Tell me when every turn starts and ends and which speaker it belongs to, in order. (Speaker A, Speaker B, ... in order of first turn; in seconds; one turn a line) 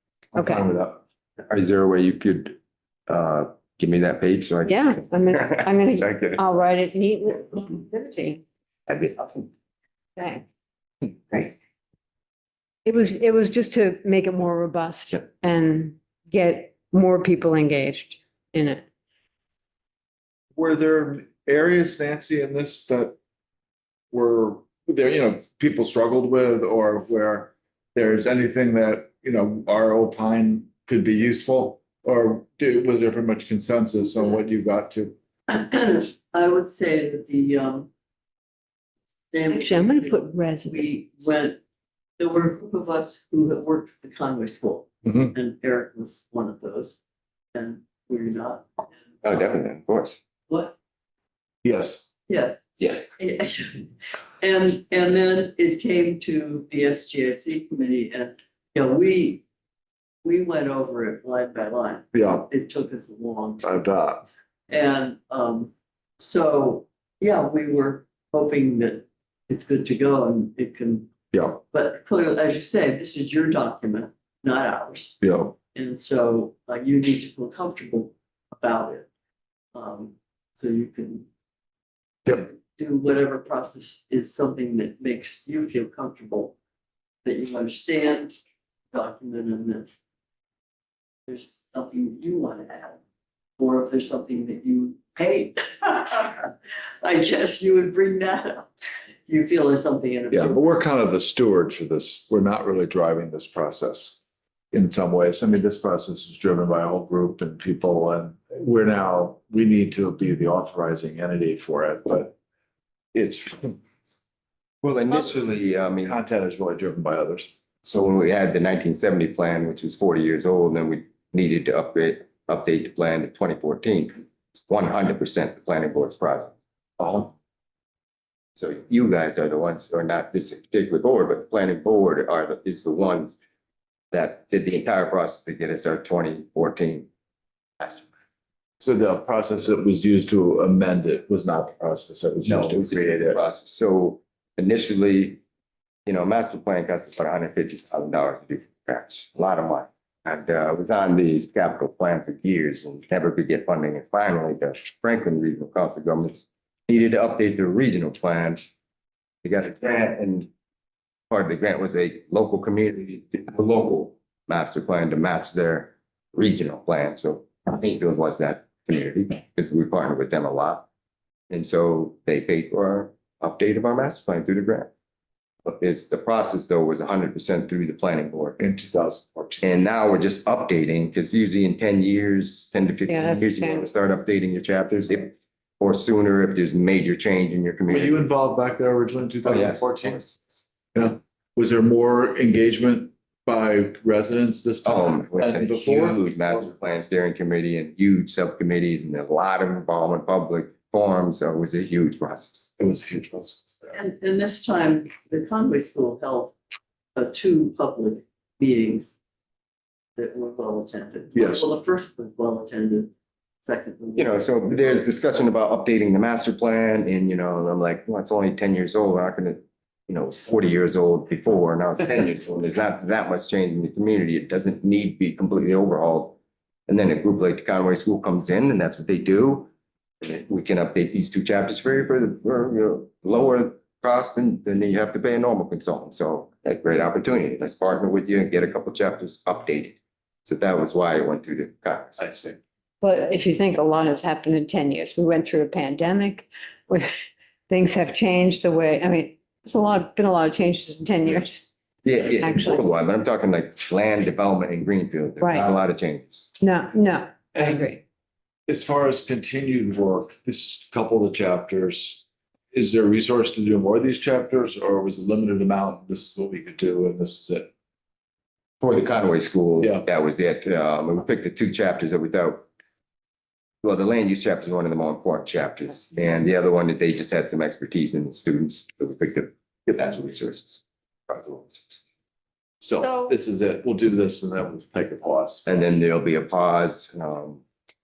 Speaker A: 0.3-1.0
Speaker B: 0.3-0.7
Speaker C: 1.4-2.6
Speaker C: 3.1-6.4
Speaker B: 4.6-8.4
Speaker C: 8.9-9.5
Speaker B: 10.2-10.4
Speaker B: 12.8-18.8
Speaker A: 20.5-23.1
Speaker A: 24.1-35.1
Speaker D: 35.5-37.9
Speaker D: 39.3-41.6
Speaker B: 39.5-40.9
Speaker D: 42.2-47.0
Speaker A: 45.0-45.3
Speaker D: 47.5-48.9
Speaker C: 49.2-50.2
Speaker D: 50.5-50.7
Speaker A: 51.6-52.1
Speaker D: 52.3-53.8
Speaker C: 52.8-53.1
Speaker D: 54.4-59.4
Speaker D: 60.2-63.7
Speaker A: 62.1-62.5
Speaker A: 63.6-64.2
Speaker D: 64.7-71.1
Speaker A: 71.3-71.6
Speaker D: 71.7-75.2
Speaker A: 75.2-75.5
Speaker D: 75.7-79.0
Speaker D: 79.7-81.2
Speaker D: 82.3-86.5
Speaker D: 87.2-88.3
Speaker D: 88.9-89.9
Speaker D: 91.3-93.0
Speaker D: 93.6-98.7
Speaker D: 99.3-100.6
Speaker A: 100.3-112.3
Speaker A: 113.1-113.8
Speaker C: 114.8-116.2
Speaker A: 116.0-117.5
Speaker C: 117.8-126.5
Speaker A: 127.0-127.3
Speaker C: 128.6-133.3
Speaker C: 134.1-137.1
Speaker A: 138.8-143.4
Speaker C: 142.4-145.4
Speaker C: 146.1-158.7
Speaker C: 159.4-160.5
Speaker C: 161.3-170.8
Speaker C: 171.5-174.9
Speaker C: 175.6-178.6
Speaker A: 178.6-179.7
Speaker C: 179.6-188.2
Speaker B: 183.1-183.9
Speaker A: 187.9-190.2
Speaker C: 189.4-190.6
Speaker A: 190.9-196.7
Speaker C: 194.8-202.7
Speaker A: 202.8-203.9
Speaker D: 203.9-206.6
Speaker D: 207.2-209.2
Speaker D: 210.2-213.1
Speaker A: 211.3-211.7
Speaker D: 213.6-215.0
Speaker C: 214.2-229.7
Speaker C: 230.2-242.5
Speaker B: 243.0-247.1
Speaker B: 247.7-251.7
Speaker C: 252.0-256.5
Speaker B: 252.2-252.8
Speaker B: 255.4-255.7
Speaker B: 256.6-258.0
Speaker A: 257.5-257.9
Speaker A: 258.7-267.7
Speaker C: 268.8-272.6
Speaker A: 269.8-270.0
Speaker C: 273.8-282.0
Speaker A: 282.8-285.6
Speaker C: 285.6-287.6